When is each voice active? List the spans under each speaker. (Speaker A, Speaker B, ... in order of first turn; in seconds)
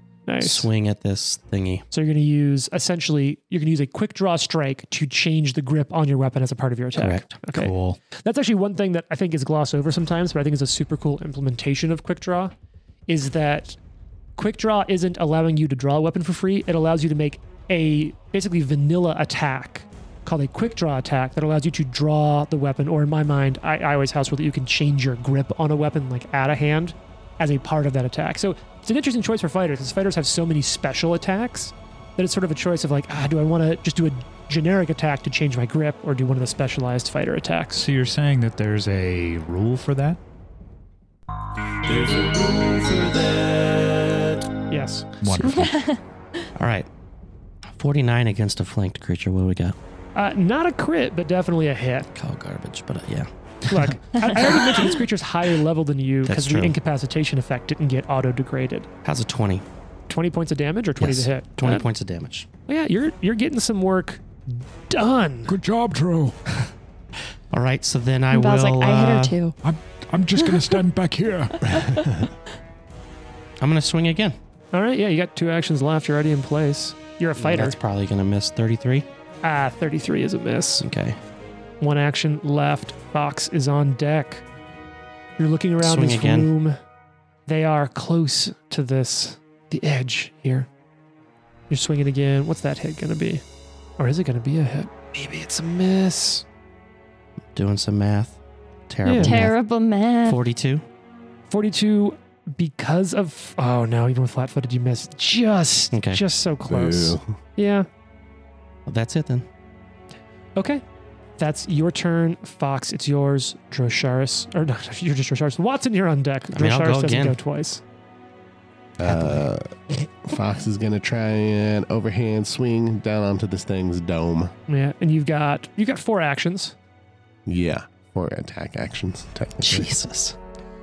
Speaker A: 0.3-0.7, 1.9-12.5, 13.1-13.8, 14.4-37.9, 44.7-45.0, 50.1-52.1, 53.7-58.9, 60.1-61.9, 62.7-65.5, 74.7-77.8, 79.4-80.8, 81.8-84.4, 85.4-86.8, 87.5-90.7, 91.7-93.4, 94.0-96.5, 101.5-107.9, 110.6-110.8, 111.4-117.8, 124.7-126.8
Speaker B: 0.4-1.9, 7.0-7.4, 45.2-45.7, 46.6-46.9, 47.7-49.8, 52.1-53.3, 56.2-56.8, 59.0-59.6, 61.0-62.5, 67.5-69.4, 73.6-74.4, 77.4-79.1, 80.8-81.2, 85.8-86.5, 97.5-98.4, 98.9-99.6, 100.2-100.8, 105.9-106.2, 108.9-109.5, 116.5-117.4, 119.0-119.5, 129.6-130.4
Speaker C: 7.5-8.0, 37.8-40.2, 45.2-45.7, 99.0-99.3
Speaker D: 41.8-44.4
Speaker E: 45.4-46.0, 68.3-69.6, 71.8-72.3, 99.2-100.4
Speaker F: 65.5-66.4, 69.6-71.9
Speaker G: 106.7-107.4, 119.0-119.7, 120.2-124.5, 127.5-129.9